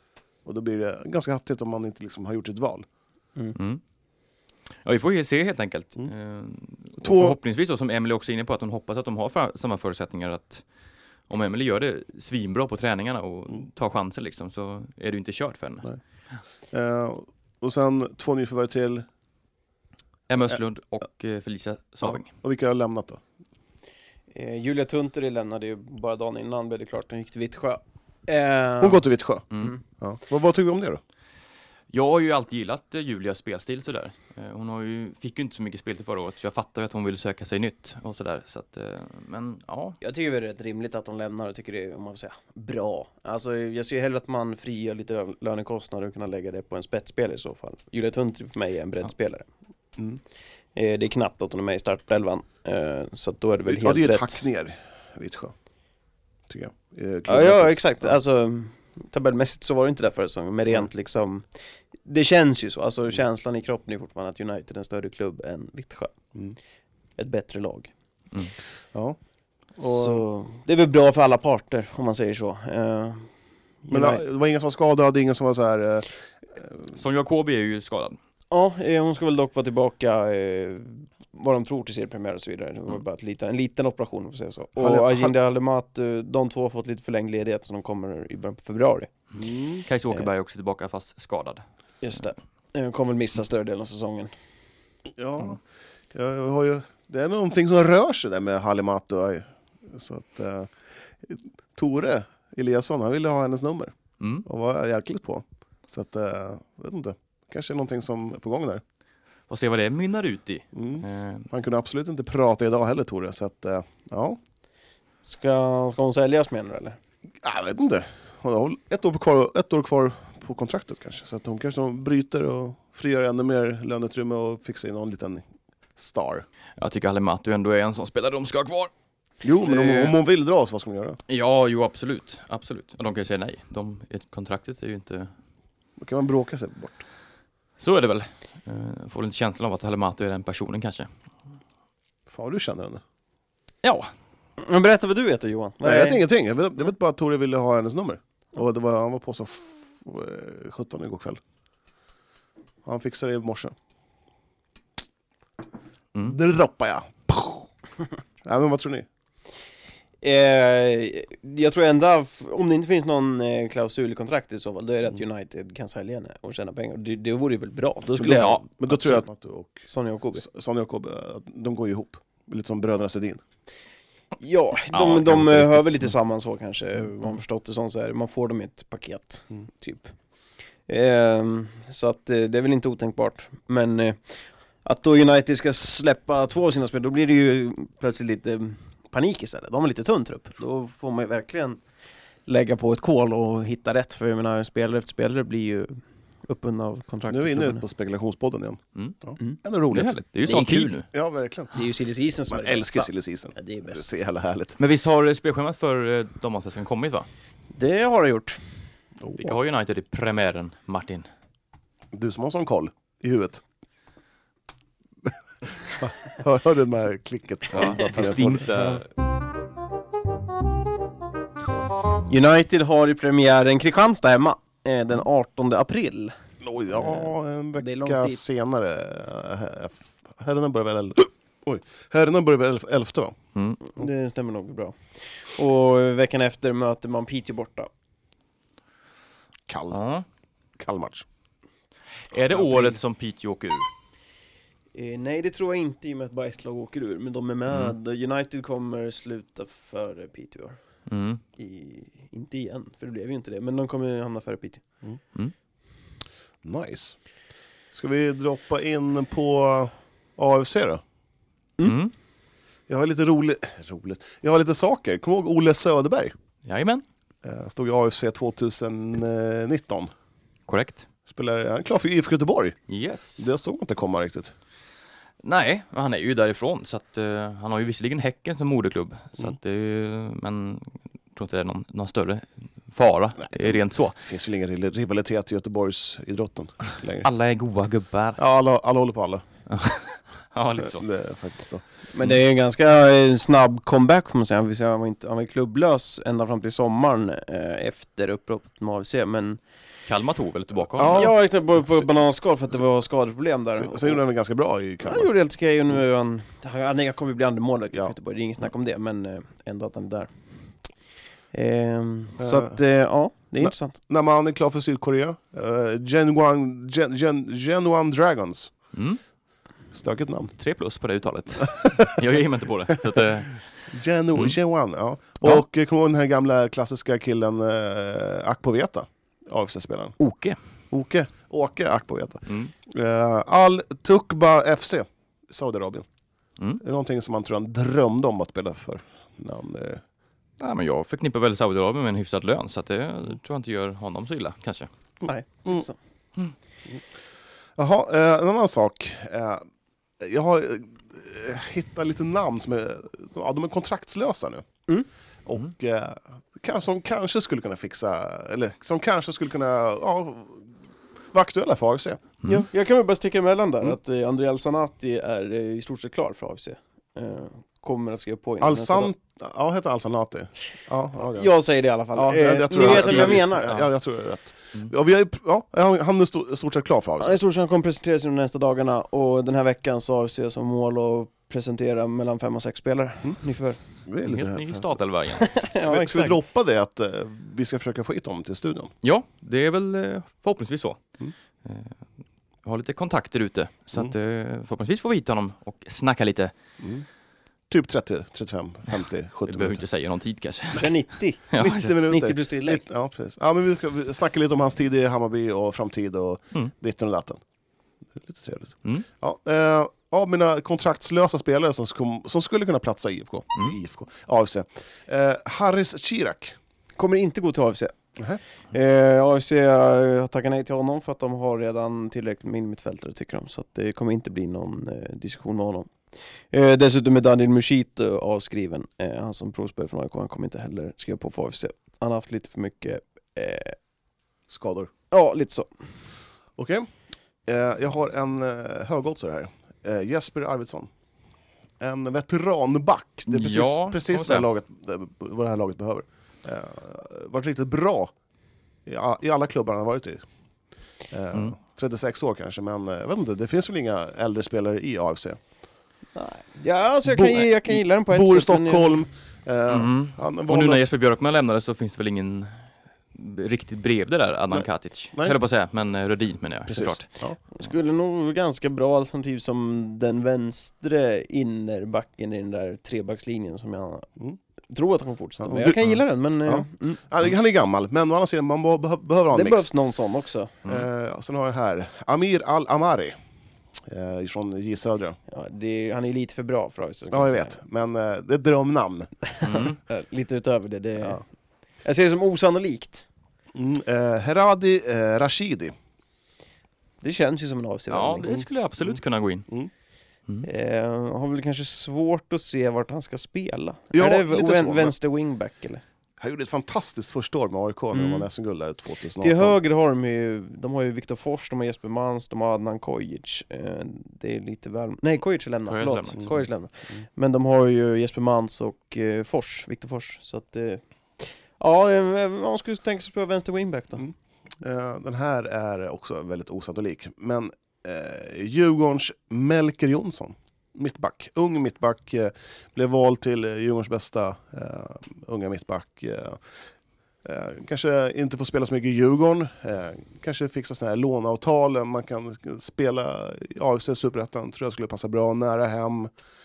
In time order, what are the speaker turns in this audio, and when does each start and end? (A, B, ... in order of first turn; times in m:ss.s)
0:00.4-0:02.8 A
0:03.5-0:03.8 B
0:04.8-0:10.6 B
0:07.0-0:07.4 A
0:11.3-0:15.9 B
0:16.7-0:19.0 A
0:20.3-0:22.3 B
0:22.0-0:23.2 A
0:24.3-0:29.0 C
0:28.8-0:29.5 A
0:30.0-0:31.0 A
0:31.9-0:40.0 B
0:40.0-0:49.5 C
0:50.8-0:54.4 C
0:53.6-0:55.5 A
0:56.5-0:58.1 A
0:57.2-1:06.1 C
1:07.2-1:07.9 C
1:09.8-1:10.2 A
1:09.8-1:13.3 C
1:13.8-1:14.2 C
1:13.9-1:16.1 A
1:16.9-1:18.2 B
1:18.5-1:29.1 C
1:24.8-1:25.3 A
1:29.4-1:29.8 A
1:29.8-1:31.6 B
1:32.0-1:34.3 C
1:35.2-1:35.6 A
1:36.1-1:40.7 A
1:41.2-1:48.8 A
1:44.2-1:44.4 B
1:49.5-1:51.5 B
1:50.7-1:54.4 A
1:55.2-1:57.0 C
1:57.4-2:05.4 A
2:06.0-2:06.4 A
2:06.8-2:08.9 B
2:09.4-2:11.2 A
2:09.6-2:10.2 B
2:11.3-2:15.3 B
2:16.0-2:17.0 A
2:17.8-2:21.1 B
2:22.3-2:23.0 A
2:24.6-2:26.2 C
2:25.8-2:31.4 A
2:32.8-2:33.7 A
2:36.2-2:37.7 A
2:38.4-2:39.1 A
2:40.2-2:48.6 C
2:48.1-2:53.4 A
2:48.2-2:49.2 B
2:49.9-2:50.4 C
2:54.4-3:00.1 C
2:54.9-2:56.1 B
3:00.9-3:11.8 C
3:12.4-3:17.8 C
3:17.3-3:21.7 A
3:19.9-3:21.0 B
3:20.5-3:20.9 C
3:21.7-3:24.1 C
3:22.5-3:24.8 A
3:24.8-3:27.3 B
3:27.7-3:28.6 C
3:29.2-3:29.5 A
3:29.4-3:31.2 B
3:32.1-3:33.6 A
3:35.8-3:38.9 A
3:37.7-3:39.1 B
3:42.2-3:46.3 C
3:46.6-3:53.4 A
3:46.9-3:48.5 C
3:53.5-3:53.8 B
3:53.8-3:57.9 C
3:59.7-4:00.0 A
3:59.9-4:00.2 B
4:00.8-4:01.2 A
4:02.3-4:03.9 B
4:04.9-4:10.8 C
4:11.1-4:11.4 B
4:11.6-4:14.8 C
4:16.6-4:17.2 A
4:17.9-4:21.0 A
4:21.8-4:22.1 B
4:22.9-4:26.3 A
4:26.6-4:27.0 B
4:27.4-4:30.1 A
4:30.7-4:31.1 B
4:31.3-4:32.8 A
4:32.9-4:33.5 B
4:33.4-4:34.5 A
4:35.4-4:44.2 B
4:43.4-4:47.2 A
4:47.2-4:48.4 B
4:48.4-4:49.4 A
4:49.7-4:51.0 B
4:50.8-4:51.8 A
4:52.1-4:59.6 C
5:00.0-5:01.3 B
5:00.9-5:01.3 A
5:01.1-5:04.2 C
5:03.8-5:05.3 A
5:05.0-5:10.3 C
5:11.5-5:14.0 C
5:12.4-5:12.8 A
5:13.6-5:18.7 A
5:18.9-5:19.2 B
5:19.9-5:20.5 A
5:20.6-5:23.6 B
5:23.9-5:30.2 A
5:30.2-5:30.6 B
5:30.9-5:36.0 A
5:32.4-5:32.7 B
5:36.8-5:40.0 A
5:40.6-5:44.9 B
5:45.2-5:46.0 C
5:47.8-5:49.6 A
5:50.2-5:54.6 A
5:55.4-6:00.7 A
6:01.3-6:02.2 A
6:02.4-6:09.1 C
6:08.6-6:11.5 A
6:11.3-6:13.7 C
6:12.1-6:17.4 A
6:12.7-6:13.9 B
6:17.2-6:23.8 C
6:24.0-6:25.0 A
6:24.2-6:25.5 B
6:25.4-6:26.4 C
6:25.7-6:28.9 A
6:29.0-6:31.0 B
6:31.6-6:31.9 B
6:32.6-6:36.5 B
6:36.8-6:37.0 A
6:37.7-6:39.8 A
6:39.5-6:40.9 B
6:40.8-6:42.8 C
6:41.5-6:41.9 B
6:41.6-6:47.4 A
6:48.2-6:56.6 A
6:57.0-6:57.9 C
6:58.7-7:05.9 C
7:06.5-7:13.8 C
7:14.5-7:14.9 A
7:15.1-7:15.7 C
7:16.6-7:16.9 A
7:17.5-7:20.9 A
7:21.8-7:28.1 A
7:23.3-7:24.4 B
7:28.8-7:30.2 A
7:31.1-7:35.4 A
7:36.1-7:39.0 C
7:37.1-7:40.8 A
7:39.7-7:42.6 B
7:43.1-7:47.1 B
7:46.7-7:47.4 A
7:47.5-7:54.1 C
7:54.7-7:57.0 C
7:55.4-7:55.8 A
7:56.4-7:59.7 A
7:59.3-8:00.6 C
8:00.6-8:03.1 A
8:03.8-8:05.2 A
8:05.3-8:07.6 C
8:07.1-8:09.1 A
8:09.4-8:11.2 C
8:09.4-8:09.8 B
8:11.8-8:13.1 C
8:13.5-8:15.7 A
8:17.0-8:18.4 C
8:17.9-8:19.5 B
8:20.4-8:25.8 C
8:23.9-8:24.9 A
8:26.2-8:29.6 A
8:27.9-8:28.3 C
8:29.2-8:44.0 C
8:35.7-8:36.4 B
8:44.0-8:56.4 A
8:57.2-9:06.1 A